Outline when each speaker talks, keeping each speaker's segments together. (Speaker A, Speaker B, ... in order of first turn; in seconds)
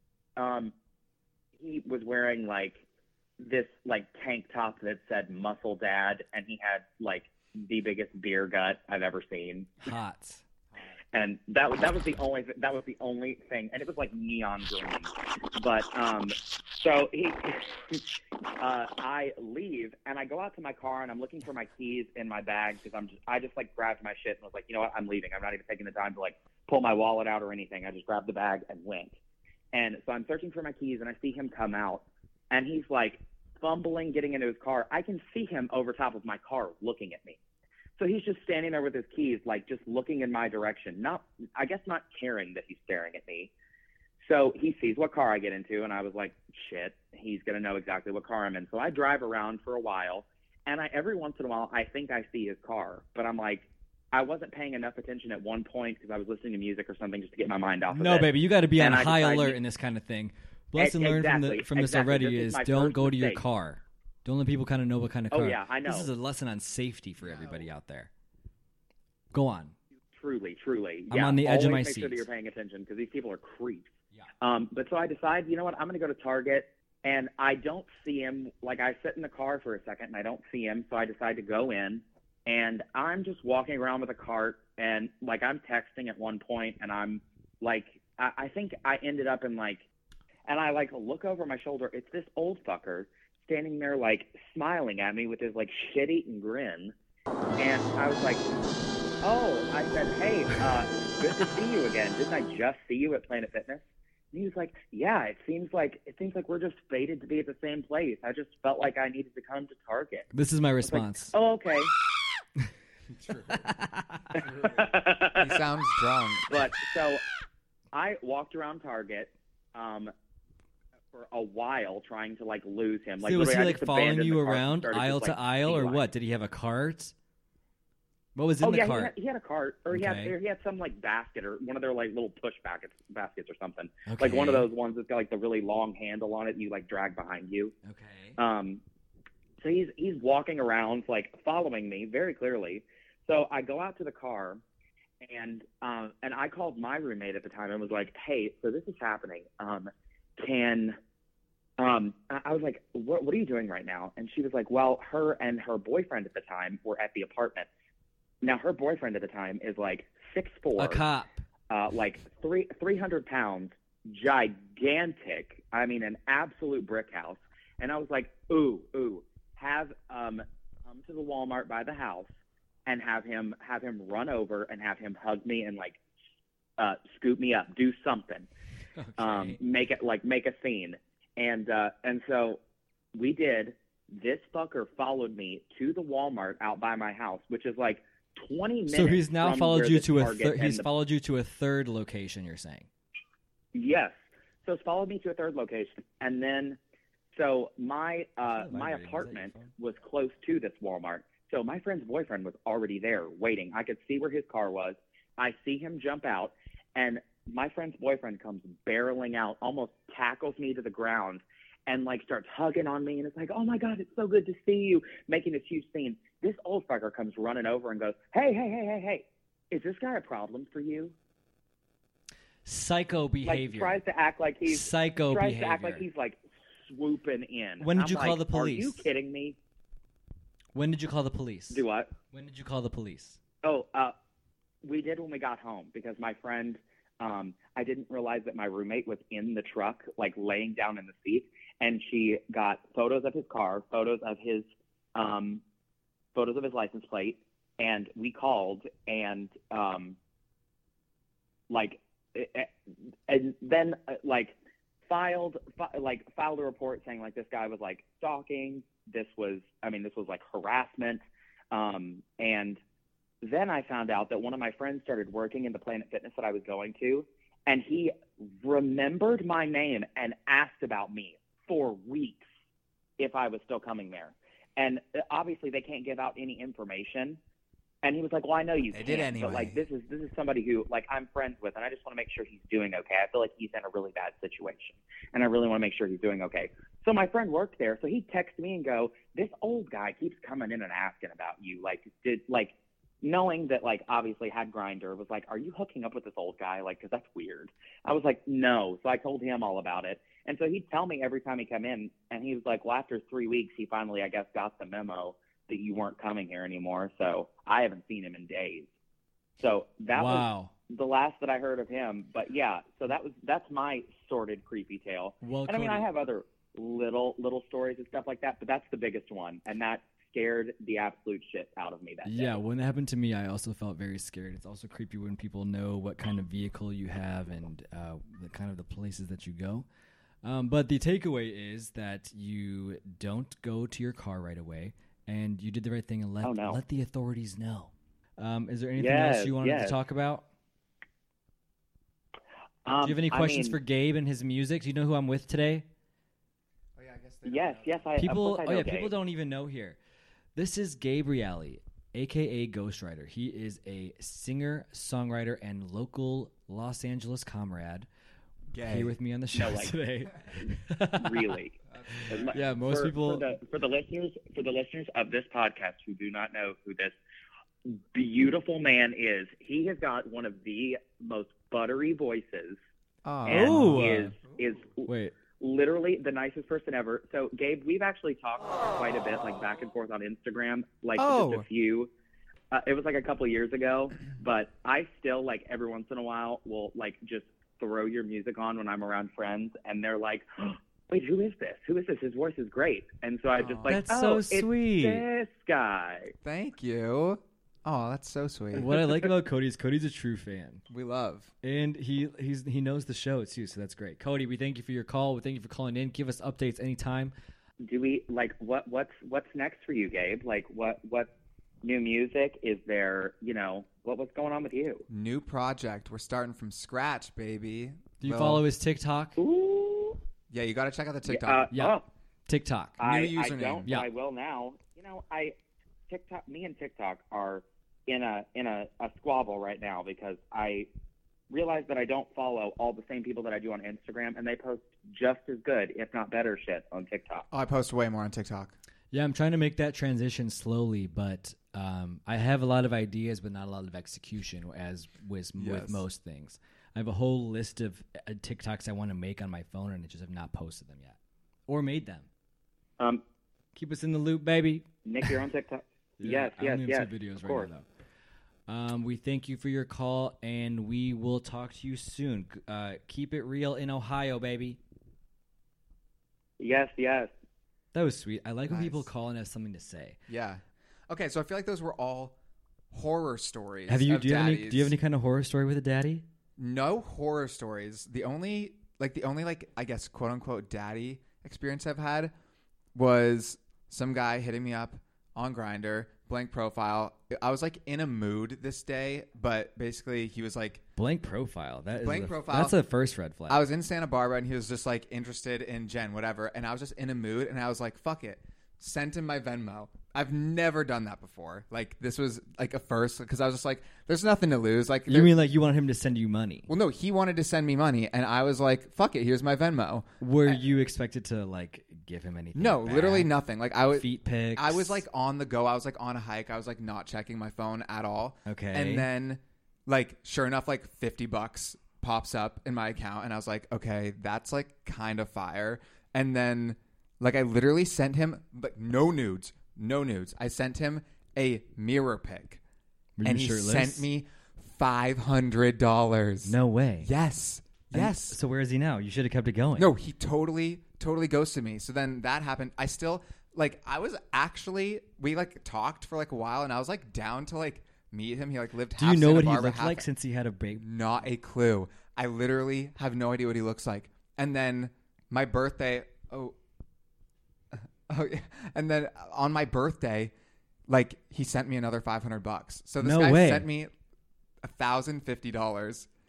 Speaker A: 0.3-0.7, 1.6-2.8, 3.4-9.7, 11.1-18.0, 18.6-29.1, 29.7-37.4, 38.0-43.5, 44.2-59.6, 60.8-63.4, 65.3-66.1, 70.1-73.9, 74.4-89.8, 90.5-96.9, 97.6-98.5, 99.2-110.3, 110.8-111.9, 114.4-115.6, 116.5-117.2, 117.9-120.1, 121.1-126.0, 128.6-137.7, 138.4-138.8, 139.6-144.6, 145.2-151.0, 151.8-157.7, 158.4-161.0, 161.7-172.3, 172.8-176.0, 176.8-178.5, 179.2-182.6, 183.1-190.9, 193.7-194.1, 194.6-196.8, 197.3-221.1, 223.4-229.6, 231.7-232.1, 233.6-234.1, 234.8-245.6, 246.3-250.2, 251.7-252.7, 253.3-254.5, 255.1-262.8, 263.4-272.4, 273.2-277.4, 278.0-308.9, 309.6-322.6, 336.4-336.8, 339.0-340.0, 342.9-343.8, 347.4-349.1, 359.5-359.9, 361.1-367.1, 367.9-372.8, 373.4-382.1, 382.7-396.3, 407.8-411.3, 411.8-415.1, 419.4-420.2, 421.2-422.1, 423.0-425.5, 426.1-430.9, 431.5-437.5, 455.0-457.7, 466.6-467.3
Speaker B: 9.8-10.4, 57.9-68.1, 69.3-69.7, 71.1-72.3, 110.3-111.3, 113.5-114.4, 123.2-127.1, 128.3-129.1, 129.9-130.3, 134.1-134.7, 137.8-138.4, 160.8-161.4, 178.9-179.6, 188.9-192.9, 198.4-199.7, 222.6-224.0, 224.7-226.0, 227.8-229.1, 230.7-233.4, 310.1-310.7, 315.4-316.0, 322.2-329.9, 330.4-340.4, 343.0-345.9, 348.2-350.0, 350.5-358.1, 358.8-361.6, 362.5-363.4, 373.5-374.3, 375.1-375.4, 393.9-395.2, 398.7-400.8, 401.6-407.3, 418.2-419.4, 421.7-423.0, 439.1-452.3, 453.7-455.4, 456.2-457.9, 458.7-464.8, 467.9-470.2, 473.9-476.2, 490.9-493.6, 505.1-506.7, 510.2-513.3, 513.9-515.0, 518.5-519.1, 533.2-534.1, 536.5-537.1, 537.9-539.9, 548.9-550.9, 563.0-563.7
Speaker C: 113.2-113.6, 114.6-116.5, 278.9-279.8, 346.9-348.0, 358.7-359.1, 361.9-362.6, 373.2-374.4, 381.1-381.6, 393.6-394.0, 396.4-398.9, 400.9-401.5, 415.1-418.6, 420.5-421.7, 423.0-423.9, 437.5-438.7, 445.6-446.0, 468.7-469.1, 470.3-472.4, 472.9-474.9, 476.6-482.3, 482.9-490.8, 491.9-492.8, 493.5-505.3, 506.7-510.6, 512.5-532.6, 533.2-538.4, 539.8-550.1, 550.8-556.5, 557.7-560.3, 560.9-563.9, 564.6-566.1